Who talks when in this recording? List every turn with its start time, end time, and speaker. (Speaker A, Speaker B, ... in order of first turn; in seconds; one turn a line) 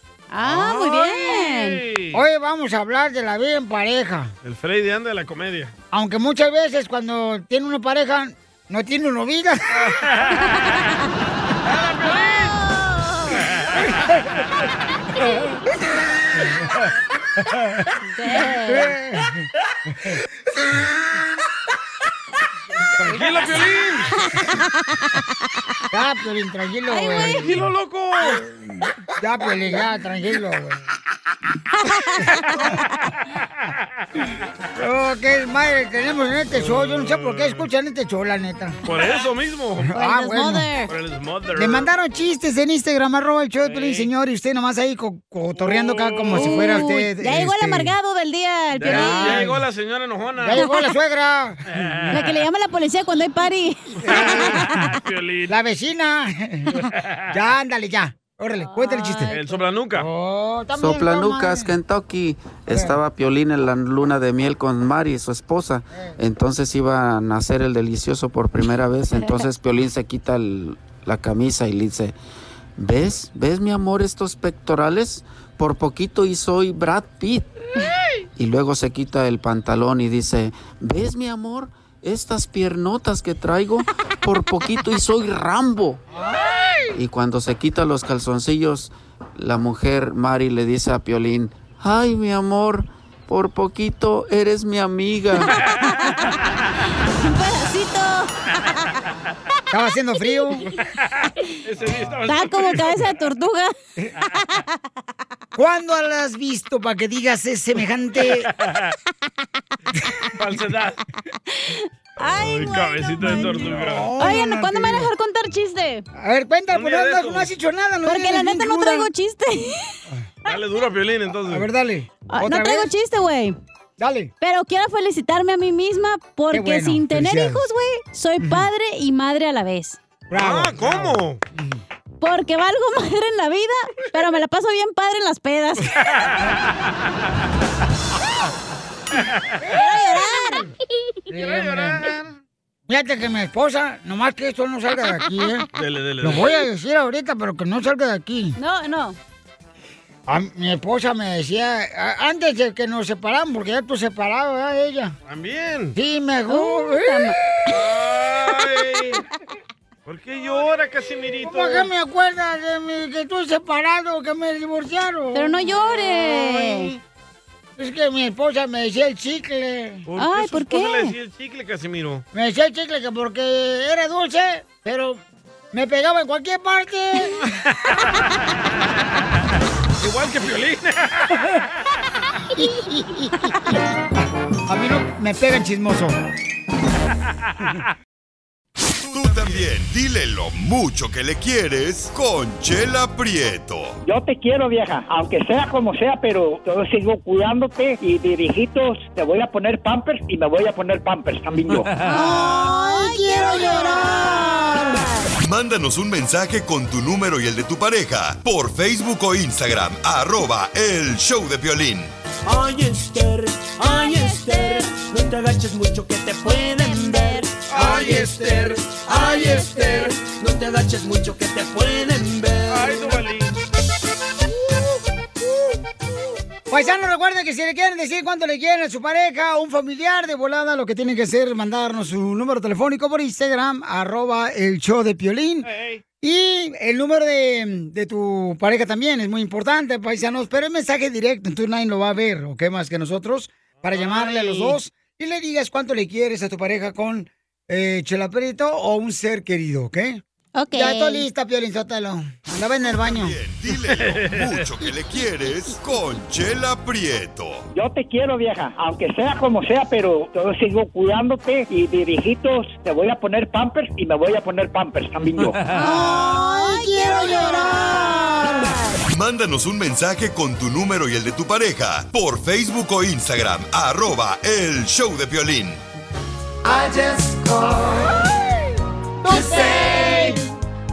Speaker A: 0.3-1.8
Speaker B: 0.4-2.2
Speaker C: 2.1-4.3
Speaker B: 4.4-5.7
Speaker C: 5.9-9.8
Speaker B: 9.8-10.2
Speaker B: 11.7-12.5
Speaker A: 12.0-13.5
Speaker A: 18.1-18.9
Speaker C: 18.7-19.4
Speaker B: 23.0-24.1
Speaker C: 25.9-27.6
Speaker A: 26.9-27.5
Speaker B: 27.4-28.4
Speaker C: 29.2-30.8
Speaker A: 31.9-32.6
Speaker C: 34.8-38.8
Speaker B: 36.5-37.6
Speaker B: 38.8-39.9
Speaker C: 39.9-40.7
Speaker A: 40.0-40.9
Speaker B: 40.9-41.9
Speaker C: 41.5-47.9
Speaker B: 43.6-44.1
Speaker B: 45.6-46.7
Speaker A: 46.3-49.5
Speaker B: 48.8-50.6
Speaker C: 48.8-49.6
Speaker C: 50.4-52.0
Speaker A: 50.5-50.8
Speaker B: 51.7-52.3
Speaker A: 52.1-54.9
Speaker C: 54.0-54.7
Speaker B: 54.0-55.5
Speaker C: 55.5-59.4
Speaker A: 58.6-59.6
Speaker B: 59.3-60.1
Speaker C: 59.9-61.7
Speaker D: 60.7-72.1
Speaker C: 62.7-63.0
Speaker A: 69.1-69.4
Speaker D: 72.8-77.5
Speaker D: 78.3-86.0
Speaker D: 86.9-95.5
Speaker A: 95.5-96.3
Speaker A: 97.2-98.3
Speaker C: 99.7-100.7
Speaker B: 101.6-103.0
Speaker A: 102.2-103.7
Speaker C: 105.5-108.5
Speaker B: 108.6-108.9
Speaker B: 110.4-111.0
Speaker A: 111.7-116.0
Speaker B: 112.4-114.1
Speaker C: 113.2-115.1
Speaker C: 116.1-119.1
Speaker B: 116.7-117.5
Speaker A: 118.0-119.9
Speaker B: 120.5-121.7
Speaker C: 121.5-122.9
Speaker A: 122.3-123.5
Speaker C: 124.0-124.3
Speaker A: 124.4-130.0
Speaker C: 126.5-127.7
Speaker C: 128.4-128.7
Speaker C: 130.3-131.8
Speaker B: 130.3-131.4
Speaker A: 132.2-135.9
Speaker A: 139.7-140.7
Speaker C: 141.3-142.1
Speaker B: 141.3-142.3
Speaker C: 142.9-145.7
Speaker B: 145.7-146.5
Speaker C: 146.2-148.6
Speaker A: 148.6-149.2
Speaker C: 150.3-155.1
Speaker B: 155.2-155.9
Speaker C: 155.9-157.6
Speaker A: 156.5-157.3
Speaker B: 157.7-159.2
Speaker B: 160.1-161.9
Speaker C: 161.4-165.6
Speaker A: 165.3-166.9
Speaker C: 166.1-166.9
Speaker C: 167.8-170.0
Speaker B: 170.1-172.2
Speaker A: 170.2-171.1
Speaker C: 172.3-175.2
Speaker C: 175.7-177.4
Speaker B: 180.0-181.4
Speaker C: 182.5-183.7
Speaker C: 184.7-186.2
Speaker E: 189.1-194.0
Speaker F: 194.0-201.9
Speaker B: 201.7-202.2
Speaker C: 202.0-205.0
Speaker A: 202.0-205.3
Speaker E: 205.4-212.1
Speaker G: 212.5-213.9
Speaker A: 214.0-215.0
Speaker G: 215.0-216.7
Speaker A: 216.7-217.5
Speaker B: 217.7-218.2
Speaker G: 217.8-218.5
Speaker G: 219.1-222.5
Speaker B: 222.7-223.6
Speaker C: 226.7-235.7
Speaker B: 235.6-236.0
Speaker C: 236.2-250.2
Speaker B: 243.8-244.8
Speaker A: 250.6-251.3
Speaker C: 250.7-253.4
Speaker E: 252.9-257.7
Speaker B: 253.9-254.5
Speaker F: 257.7-265.6
Speaker B: 265.3-265.9
Speaker A: 265.7-269.0
Speaker C: 265.7-268.7
Speaker E: 269.1-275.8
Speaker C: 279.2-280.3